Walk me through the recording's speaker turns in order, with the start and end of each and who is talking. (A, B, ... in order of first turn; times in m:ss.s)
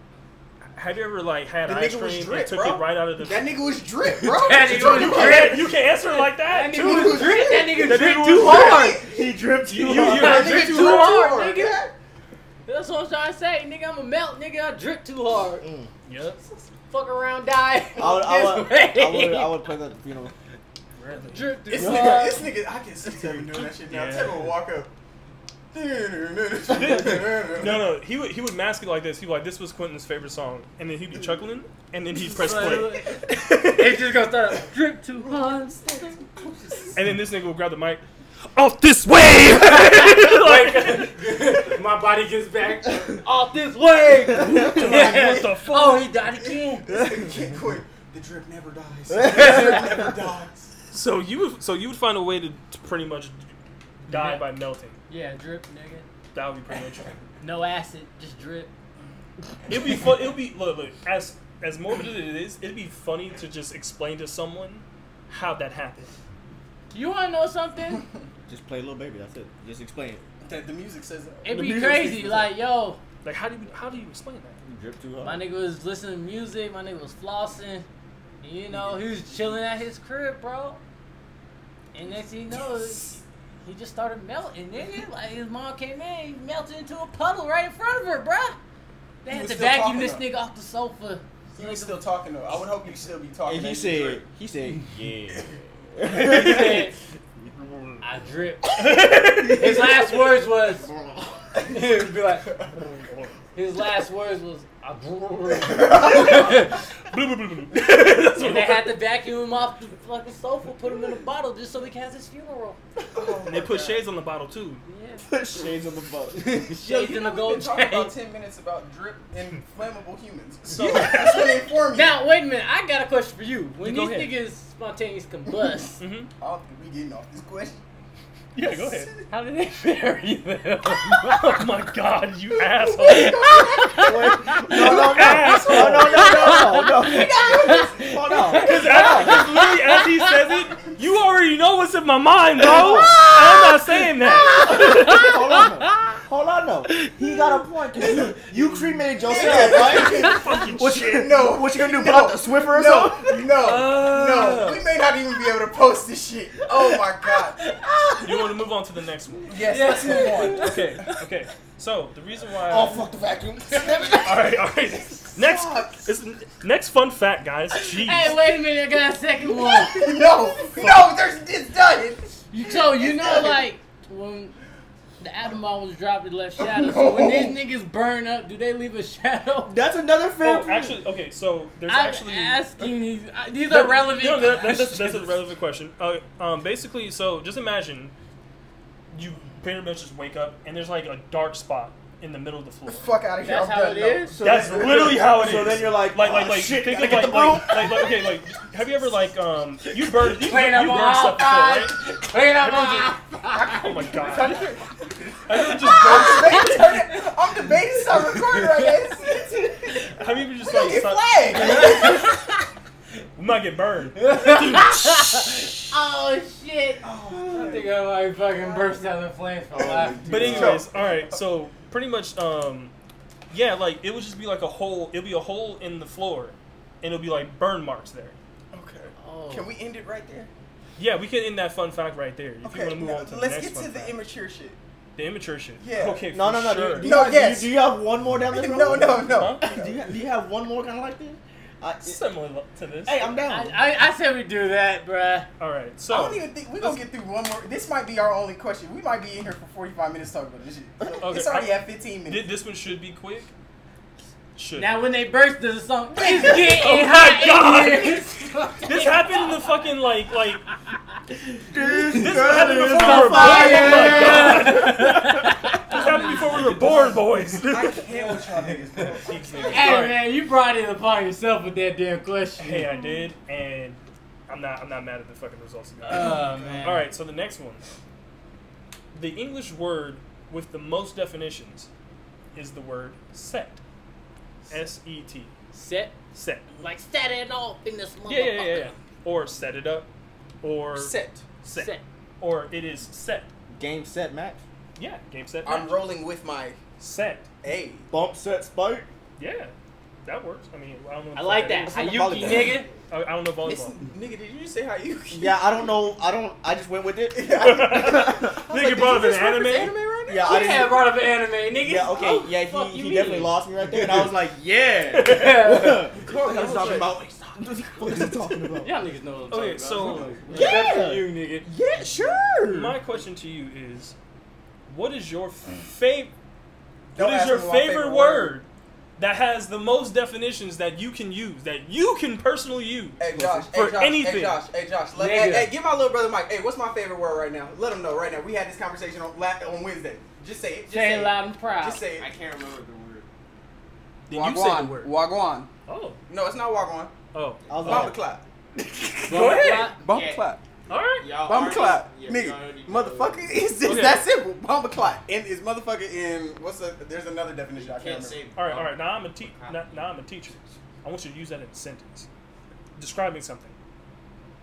0:00.7-0:03.5 A
0:01.6-0:05.8 B
0:04.3-0:09.0 C
0:04.6-0:08.8 A
0:06.7-0:09.1 B
0:08.4-0:10.5 D
0:09.7-0:11.3 A
0:10.0-0:11.9 B
0:10.0-0:11.8 C
0:12.6-0:15.6 C
0:15.6-0:15.9 D
0:16.0-0:16.4 A
0:16.9-0:19.6 C
0:18.0-0:20.3 D
0:21.0-0:21.5 A
0:21.3-0:22.5 C
0:21.7-0:24.9 B
0:21.8-0:22.1 D
0:23.6-0:24.6 A
0:25.7-0:27.9 B
0:26.7-0:33.7 A
0:32.2-0:36.2 C
0:36.4-0:36.9 B
0:36.9-0:38.0 A
0:38.5-0:41.2 A
0:39.6-0:46.9 C
0:44.4-0:46.1 A
0:44.5-0:44.9 D
0:46.8-0:50.7 B
0:49.1-0:49.7 D
0:50.9-0:53.5 A
0:54.0-0:55.0 A
0:54.1-0:54.4 C
0:55.1-0:56.0 C
0:56.3-0:57.2 A
0:57.4-0:58.7 C
0:59.7-1:06.1 A
1:06.9-1:08.0 C
1:08.5-1:10.2 D
1:10.4-1:11.5 B
1:11.4-1:13.0 C
1:11.5-1:11.9 A
1:11.5-1:12.5 D
1:13.2-1:14.6 A
1:14.6-1:15.4 D
1:15.2-1:17.8 C
1:18.4-1:20.8 C
1:21.9-1:28.6 C
1:29.2-1:32.0 C
1:29.3-1:30.2 B
1:31.5-1:34.2 B
1:33.4-1:36.8 D
1:36.1-1:36.9 C
1:36.2-1:36.8 A
1:38.0-1:40.9 C
1:38.8-1:39.8 A
1:40.6-1:41.5 D
1:41.5-1:42.5 C
1:42.7-1:43.3 A
1:43.5-1:46.8 C
1:46.0-1:48.9 A
1:48.3-1:52.8 C
1:53.1-1:54.0 B
1:53.4-1:54.8 A
1:54.8-1:55.3 C
1:55.2-1:56.6 D
1:56.3-1:58.1 C
1:56.7-2:02.2 B
2:00.7-2:01.6 A
2:01.9-2:06.0 C
2:03.8-2:04.3 A
2:06.0-2:06.3 A
2:06.4-2:07.8 B
2:08.5-2:09.1 A
2:08.6-2:09.3 B
2:09.3-2:11.6 C
2:11.2-2:13.7 A
2:13.0-2:14.1 B
2:13.0-2:15.1 C
2:14.0-2:19.4 D
2:14.7-2:16.4 A
2:14.7-2:16.5 B
2:15.7-2:20.3 C
2:18.5-2:25.4 A
2:22.7-2:23.3 D
2:22.8-2:23.7 C
2:24.2-2:26.1 C
2:24.4-2:33.4 D
2:26.9-2:28.3 C
2:29.2-2:37.7 B
2:29.4-2:31.2 A
2:33.6-2:34.8 A
2:36.8-2:38.5 C
2:38.2-2:39.6 A
2:39.5-2:40.8 B
2:39.6-2:40.8 C
2:40.4-2:43.0 A
2:42.7-2:44.6 D
2:44.2-2:48.4 A
2:45.3-2:46.1 B
2:48.0-2:50.0 C
2:49.6-2:53.6 B
2:52.5-2:54.5 C
2:55.2-2:59.8 C
2:56.6-2:57.6 B
2:59.7-3:01.0 D
3:00.4-3:02.7 A
3:01.9-3:05.3 C
3:03.7-3:08.1 A
3:09.1-3:13.1 A
3:12.9-3:14.3 B
3:13.4-3:14.4 C
3:14.3-3:18.1 D
3:14.4-3:22.0 A
3:20.3-3:24.1 C
3:22.6-3:24.6 A
3:24.1-3:24.7 B
3:24.3-3:24.6 D
3:25.4-3:26.9 A
3:25.8-3:32.3 B
3:26.1-3:26.9 C
3:28.5-3:28.9 C
3:30.1-3:32.3 A
3:31.6-3:32.5 C
3:33.4-3:35.6 A
3:34.2-3:40.8 C
3:37.0-3:39.0 B
3:37.3-3:37.8 D
3:39.7-3:41.4 B
3:40.3-3:42.9 A
3:43.5-3:48.4 A
3:48.7-3:50.5 B
3:49.2-3:49.7 C
3:51.0-3:54.2 A
3:52.6-3:54.8 B
3:55.2-3:57.2 A
3:55.8-3:56.2 B
3:56.3-4:02.2 D
3:57.0-3:57.8 B
3:58.4-4:00.0 B
3:59.2-3:59.7 A
4:02.0-4:03.2 A
4:03.0-4:03.8 D
4:03.5-4:05.5 C
4:05.6-4:07.0 A
4:06.1-4:12.4 B
4:11.2-4:13.5 A
4:14.6-4:15.0 A
4:14.8-4:19.6 C
4:16.2-4:16.5 B
4:16.4-4:18.3 A
4:18.8-4:20.6 A
4:21.7-4:24.7 D
4:22.1-4:28.0 A
4:22.3-4:26.6 C
4:26.3-4:30.0 B
4:29.2-4:30.2 A
4:29.6-4:33.0 C
4:32.6-4:37.8 A
4:36.0-4:37.1 C
4:36.5-4:37.0 B
4:39.1-4:41.9 A
4:42.5-4:43.8 A
4:44.7-4:45.5 A
4:45.7-4:46.2 C
4:46.3-4:46.7 A
4:46.8-4:48.9 C
4:48.2-4:50.1 A
4:50.6-4:53.5 A
4:50.9-4:51.4 B
4:51.7-4:52.0 C
4:53.7-4:54.6 D
4:55.0-4:56.1 A
4:55.6-4:56.8 B
4:57.0-4:57.5 A
4:57.6-4:58.1 B
4:58.1-4:59.1 D
4:59.4-4:59.7 A
5:00.2-5:04.0 A
5:01.3-5:02.9 C
5:01.9-5:02.8 D
5:03.6-5:05.9 B
5:05.3-5:08.3 D
5:07.3-5:11.0 B
5:07.6-5:09.9 A
5:10.3-5:11.0 D
5:10.4-5:13.6 C
5:11.7-5:18.9 D
5:15.1-5:16.3 C
5:16.2-5:17.1 B
5:18.8-5:21.7 C
5:19.5-5:20.9 A
5:20.2-5:21.2 D
5:20.5-5:20.9 B
5:21.7-5:22.9 B
5:22.0-5:22.4 D
5:22.6-5:24.1 A
5:24.9-5:26.3 A
5:27.1-5:28.6 B
5:27.2-5:33.2 A
5:33.2-5:42.3 B
5:33.3-5:33.7 D
5:33.7-5:34.6 A
5:35.1-5:35.7 C
5:40.9-5:42.0 C
5:42.1-5:43.2 E
5:44.3-5:45.1 A
5:44.3-5:45.7 B
5:45.9-5:46.2 A
5:46.3-5:47.1 B
5:47.3-5:48.1 A
5:47.7-5:48.0 E
5:47.7-5:48.1 D
5:47.8-5:50.6 B
5:49.2-5:50.0 C
5:49.3-5:49.9 A
5:50.0-5:50.5 E
5:50.9-5:51.3 A
5:51.1-5:53.7 E
5:51.4-5:58.4 B
5:53.8-5:54.2 A
5:57.7-6:00.7 E
5:58.5-6:02.3 A
6:03.0-6:03.7 A